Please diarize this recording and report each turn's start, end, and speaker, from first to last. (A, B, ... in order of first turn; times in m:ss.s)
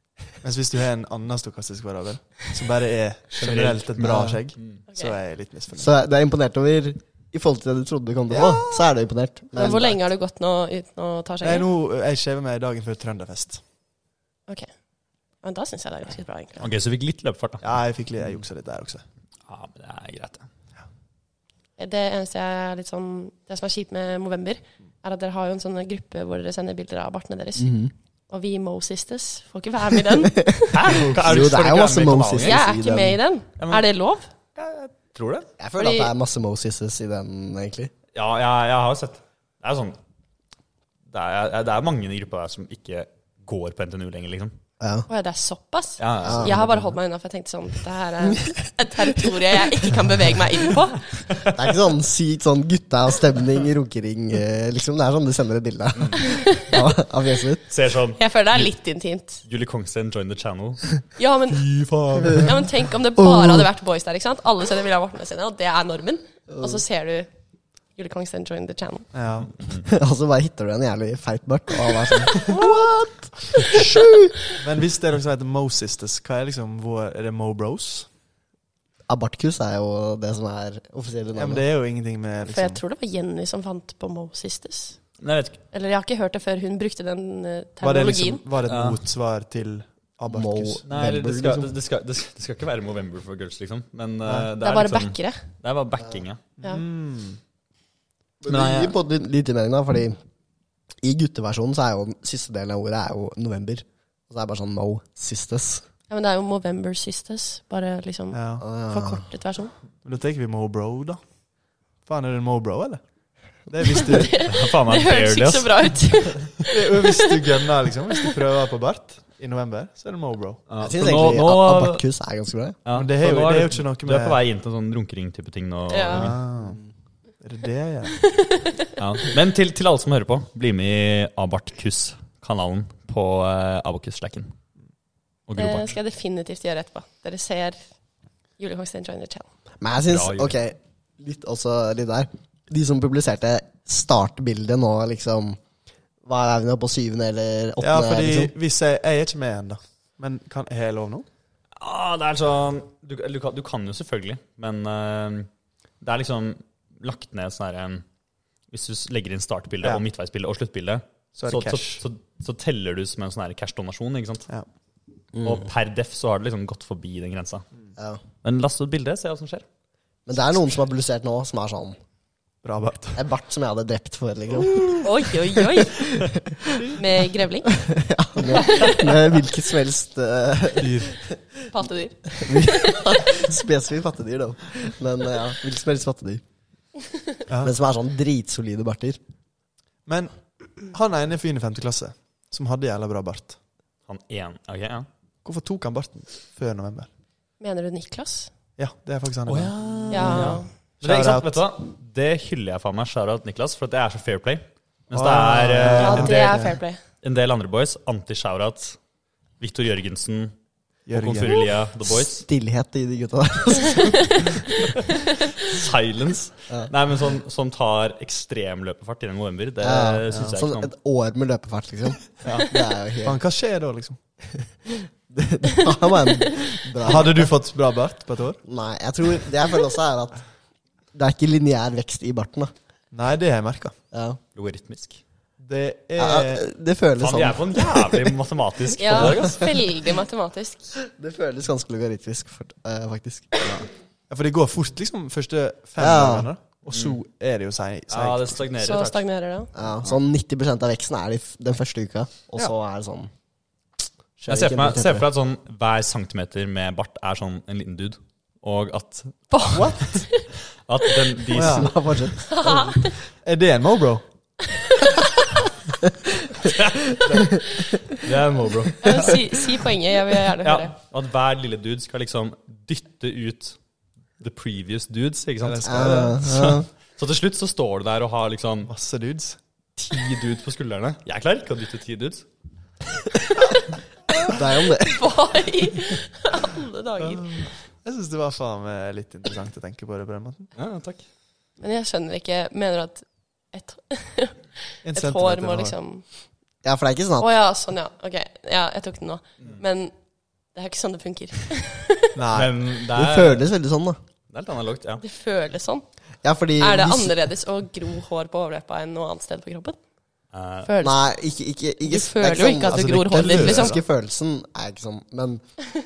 0:00.4-0:05.9 A
0:03.4-0:04.8 B
0:04.0-0:04.4 C
0:05.8-0:09.9 C
0:08.3-0:08.8 A
0:09.5-0:11.7 D
0:09.6-0:09.9 A
0:11.4-0:13.6 A
0:15.4-0:16.7 D
0:16.6-0:17.7 B
0:17.6-0:19.0 A
0:19.5-0:20.4 B
0:21.8-0:27.7 D
0:27.6-0:27.9 C
0:28.3-0:30.8 D
0:30.4-0:33.2 C
0:30.7-0:32.7 B
0:30.9-0:31.5 A
0:32.4-0:34.3 D
0:33.6-0:33.9 B
0:34.6-0:35.5 B
0:35.6-0:37.9 C
0:35.8-0:36.1 D
0:38.1-0:40.0 B
0:41.1-0:44.5 B
0:44.8-0:45.1 C
0:45.1-0:51.0 D
0:46.0-0:47.0 B
0:46.2-0:46.6 C
0:51.2-0:51.6 B
0:51.5-0:57.6 C
0:56.2-0:56.9 D
0:57.7-0:58.7 B
0:58.2-0:59.4 D
0:59.4-1:01.0 B
1:01.2-1:01.7 D
1:01.7-1:02.6 A
1:02.1-1:02.4 B
1:02.4-1:07.3 D
1:03.2-1:03.7 C
1:06.5-1:06.8 C
1:08.0-1:09.1 D
1:09.1-1:09.5 A
1:09.5-1:09.8 B
1:09.8-1:14.4 C
1:14.6-1:18.1 A
1:19.1-1:21.6 C
1:21.4-1:22.8 A
1:22.5-1:25.0 D
1:25.2-1:25.6 B
1:25.7-1:28.4 D
1:27.8-1:30.8 A
1:28.6-1:29.0 B
1:30.3-1:31.7 C
1:30.9-1:36.4 B
1:34.2-1:34.5 A
1:34.6-1:35.4 D
1:36.6-1:37.4 A
1:38.4-1:40.2 C
1:38.5-1:39.0 B
1:41.0-1:45.8 C
1:46.1-1:49.7 D
1:48.3-1:48.7 A
1:48.6-1:49.2 C
1:50.0-1:51.2 A
1:52.1-1:53.0 A
1:53.7-1:54.4 A
1:53.9-1:57.2 D
1:54.4-1:56.7 B
1:56.7-2:00.6 A
2:00.7-2:02.0 B
2:00.8-2:02.8 C
2:02.8-2:06.4 B
2:02.9-2:04.4 A
2:05.9-2:06.3 D
2:06.1-2:06.8 A
2:06.6-2:06.8 C
2:07.4-2:08.2 A
2:08.2-2:09.0 D
2:09.0-2:14.5 B
2:15.5-2:16.0 B
2:15.6-2:17.8 D
2:18.6-2:19.5 D
2:19.8-2:25.6 C
2:20.1-2:20.6 B
2:26.2-2:28.5 C
2:27.8-2:31.3 A
2:31.8-2:35.5 B
2:36.0-2:38.0 B
2:38.7-2:44.5 B
2:41.4-2:42.0 A
2:45.4-2:45.7 C
2:45.4-2:47.6 B
2:48.0-2:48.2 C
2:48.4-2:49.7 B
2:50.3-2:52.0 C
2:52.6-2:53.2 A
2:53.2-2:56.9 C
2:55.0-2:56.0 D
2:57.0-2:57.7 D
2:57.7-3:01.4 C
2:58.6-2:59.0 D
3:00.8-3:01.1 A
3:01.7-3:03.2 D
3:02.4-3:06.4 C
3:07.5-3:07.7 A
3:07.6-3:09.2 C
3:10.1-3:13.6 A
3:14.1-3:15.1 B
3:15.4-3:17.1 A
3:17.6-3:18.5 D
3:18.8-3:21.5 A
3:19.5-3:26.6 B
3:20.1-3:20.7 D
3:25.1-3:26.8 A
3:25.8-3:27.0 D
3:27.2-3:29.0 B
3:29.6-3:30.5 B
3:31.1-3:31.7 A
3:31.1-3:32.5 B
3:32.2-3:34.6 C
3:35.6-3:40.9 B
3:39.8-3:43.4 C
3:43.2-3:44.2 A
3:44.9-3:47.5 C
3:47.0-3:48.6 A
3:48.6-3:50.5 C
3:51.1-3:52.7 C
3:53.1-3:54.0 A
3:54.1-3:54.4 C
3:54.6-3:55.2 B
3:55.6-3:56.6 A
3:56.2-3:58.4 C
3:57.2-3:59.7 B
3:59.0-4:01.0 D
3:59.1-3:59.7 C
4:01.0-4:03.8 C
4:04.3-4:08.7 A
4:06.0-4:06.5 C
4:06.9-4:07.2 B
4:08.1-4:09.2 B
4:08.8-4:09.7 D
4:09.8-4:13.3 C
4:14.4-4:15.3 C
4:14.5-4:22.2 B
4:19.5-4:20.4 D
4:19.7-4:20.2 A
4:21.5-4:21.9 A
4:21.6-4:22.5 C
4:22.4-4:23.2 D
4:22.6-4:24.2 A
4:26.7-4:27.3 B
4:27.3-4:28.0 C
4:28.2-4:29.5 B
4:29.0-4:30.9 D
4:30.6-4:33.8 B
4:34.4-4:38.9 B
4:35.6-4:36.4 A
4:35.8-4:36.9 C
4:38.9-4:39.6 A
4:40.0-4:42.5 B
4:44.5-4:45.2 C
4:45.0-4:47.6 D
4:47.2-4:50.7 A
4:50.8-4:51.2 B
4:51.8-4:56.2 D
4:55.0-4:56.0 A
4:56.8-4:57.5 C
4:57.4-5:00.1 D
5:00.7-5:02.4 D
5:02.4-5:02.7 A
5:02.5-5:03.6 B
5:03.1-5:04.2 C
5:04.5-5:05.2 B
5:05.2-5:06.0 D
5:06.4-5:07.4 C
5:06.8-5:10.0 D
5:10.5-5:10.9 B
5:10.8-5:11.2 D
5:11.0-5:15.6 C
5:12.0-5:14.0 D
5:12.9-5:14.0 A